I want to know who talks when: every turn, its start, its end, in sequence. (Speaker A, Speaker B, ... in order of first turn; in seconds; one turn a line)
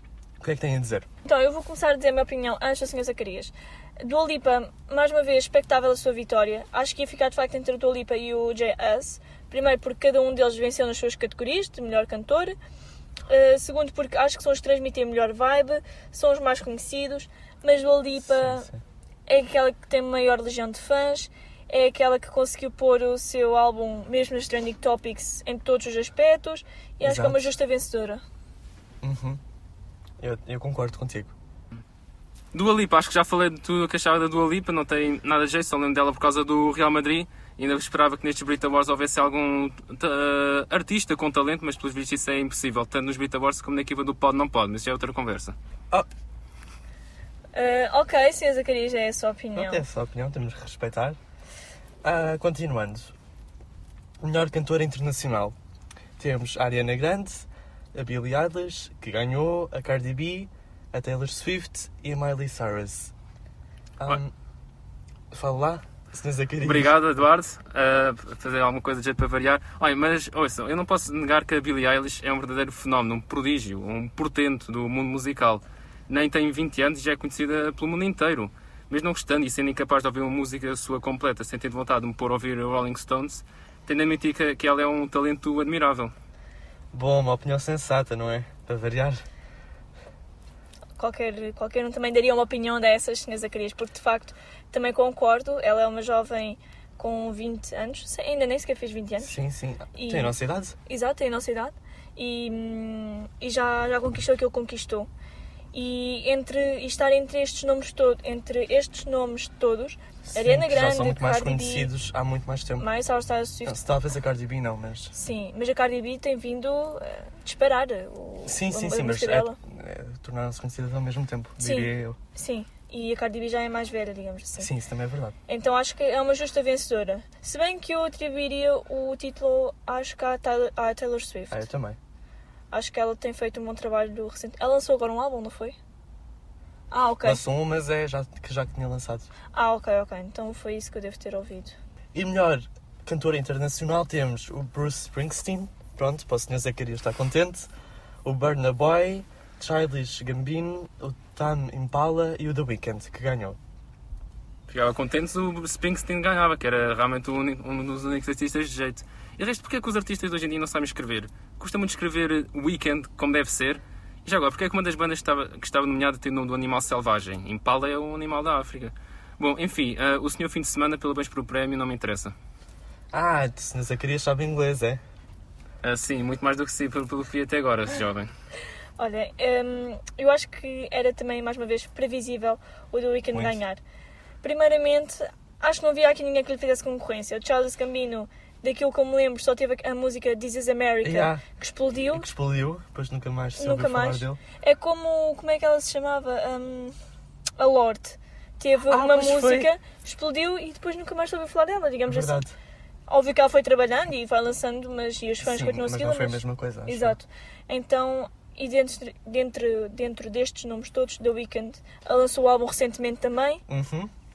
Speaker A: 0.4-1.1
Speaker B: 1.2-12.6
Speaker B: 13.3-18.7
Speaker A: 18.2-18.8
Speaker B: 19.3-28.2
Speaker A: 27.0-27.5
Speaker A: 29.0-29.4
Speaker A: 30.2-31.3
Speaker C: 32.5-45.6
Speaker B: 47.5-49.8
Speaker A: 49.6-51.2
Speaker A: 52.0-53.1
Speaker A: 54.2-55.6
Speaker A: 56.2-63.1
Speaker A: 64.0-64.3
Speaker A: 65.3-66.9
Speaker C: 66.6-86.1
Speaker A: 86.9-89.2
Speaker B: 91.0-99.3
Speaker A: 99.2-100.8
Speaker B: 99.9-100.3
Speaker B: 100.9-105.1
Speaker B: 105.7-111.9
Speaker A: 110.3-112.9
Speaker B: 112.8-113.8
Speaker A: 113.7-115.1
Speaker B: 115.1-119.6
Speaker A: 118.5-122.2
Speaker B: 121.6-124.7
Speaker A: 124.6-125.3
Speaker B: 125.5-131.7
Speaker A: 131.5-132.0
Speaker B: 132.7-135.8
Speaker B: 136.9-137.4
Speaker A: 137.2-139.3
Speaker B: 139.5-141.8
Speaker A: 142.1-147.7
Speaker A: 148.2-153.6
Speaker C: 154.7-172.3
Speaker A: 173.1-175.0
Speaker C: 175.8-178.3
Speaker B: 179.0-183.8
Speaker A: 183.3-183.6
Speaker B: 184.4-192.3
Speaker A: 191.0-191.4
Speaker A: 192.1-194.4
Speaker B: 193.6-197.0
Speaker B: 197.6-202.4
Speaker A: 198.9-199.7
Speaker A: 202.1-202.5
Speaker B: 203.1-213.6
Speaker A: 205.4-207.2
Speaker A: 213.7-214.1